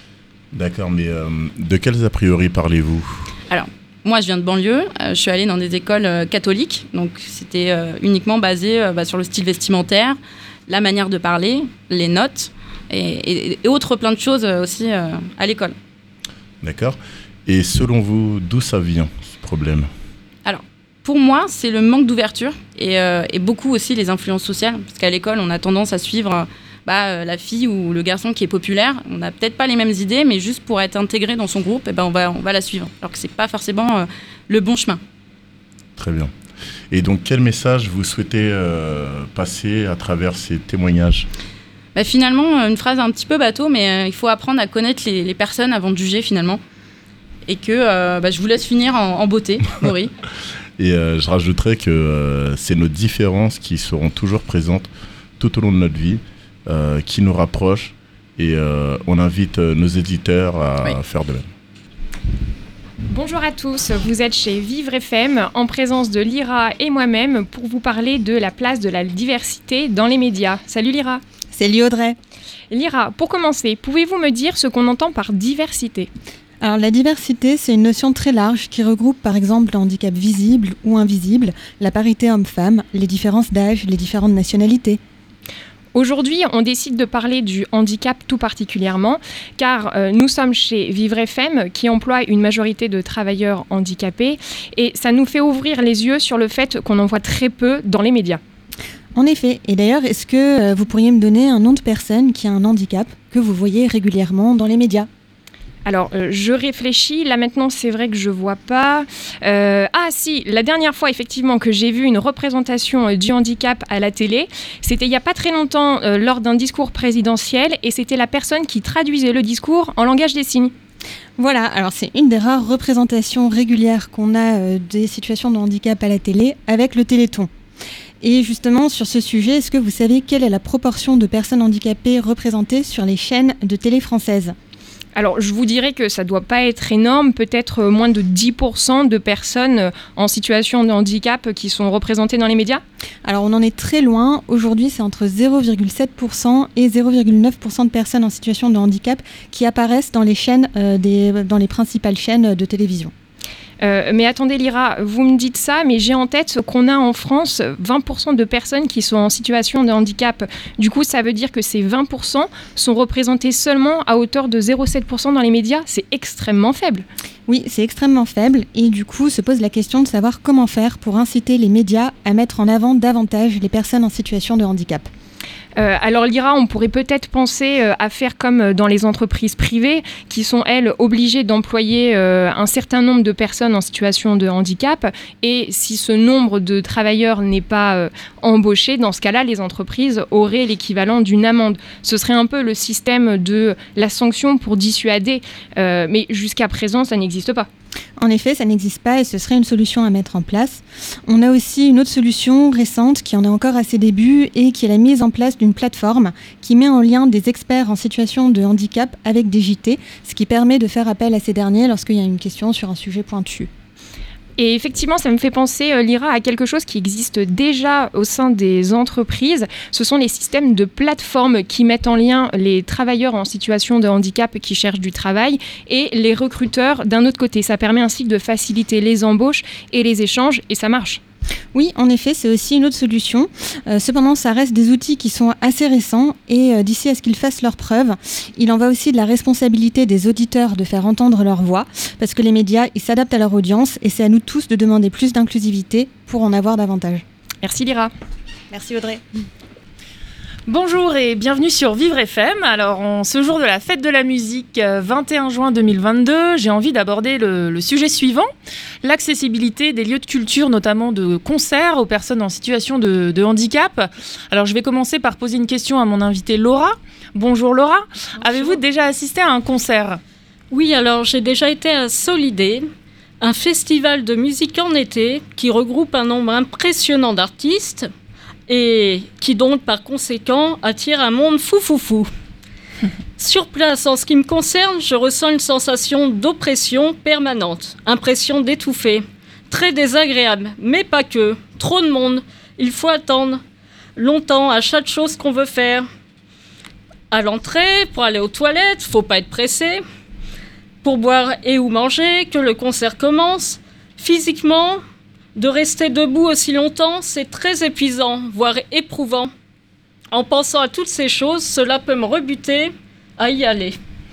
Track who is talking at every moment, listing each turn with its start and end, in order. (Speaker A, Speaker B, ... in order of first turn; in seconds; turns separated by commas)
Speaker A: 0.5-3.2, Speaker B: 3.5-15.8, Speaker A: 16.6-19.9, Speaker B: 20.4-35.0, Speaker A: 36.0-36.3, Speaker A: 36.9-41.3, Speaker B: 41.9-46.6, Speaker B: 47.5-50.1, Speaker A: 50.8-61.5, Speaker C: 63.1-71.2, Speaker D: 71.5-72.2, Speaker C: 72.7-76.1, Speaker D: 76.6-85.0, Speaker C: 85.9-98.4, Speaker D: 99.1-105.1, Speaker C: 105.8-120.7, Speaker D: 121.4-127.5, Speaker D: 128.2-134.6, Speaker C: 135.2-142.8, Speaker D: 143.2-153.1, Speaker C: 153.8-167.1, Speaker D: 167.5-175.1, Speaker C: 175.8-197.7, Speaker D: 198.2-213.7, Speaker C: 214.6-231.2, Speaker D: 231.7-247.2, Speaker C: 247.6-248.1, Speaker D: 248.7-249.2, Speaker E: 250.7-258.5, Speaker E: 259.0-270.2, Speaker F: 268.4-268.8, Speaker F: 270.7-272.9, Speaker F: 273.4-278.1, Speaker F: 278.7-282.3, Speaker F: 283.4-293.6, Speaker F: 294.2-296.1, Speaker F: 297.3-300.0, Speaker F: 301.0-305.0, Speaker F: 305.6-309.5, Speaker F: 310.3-314.0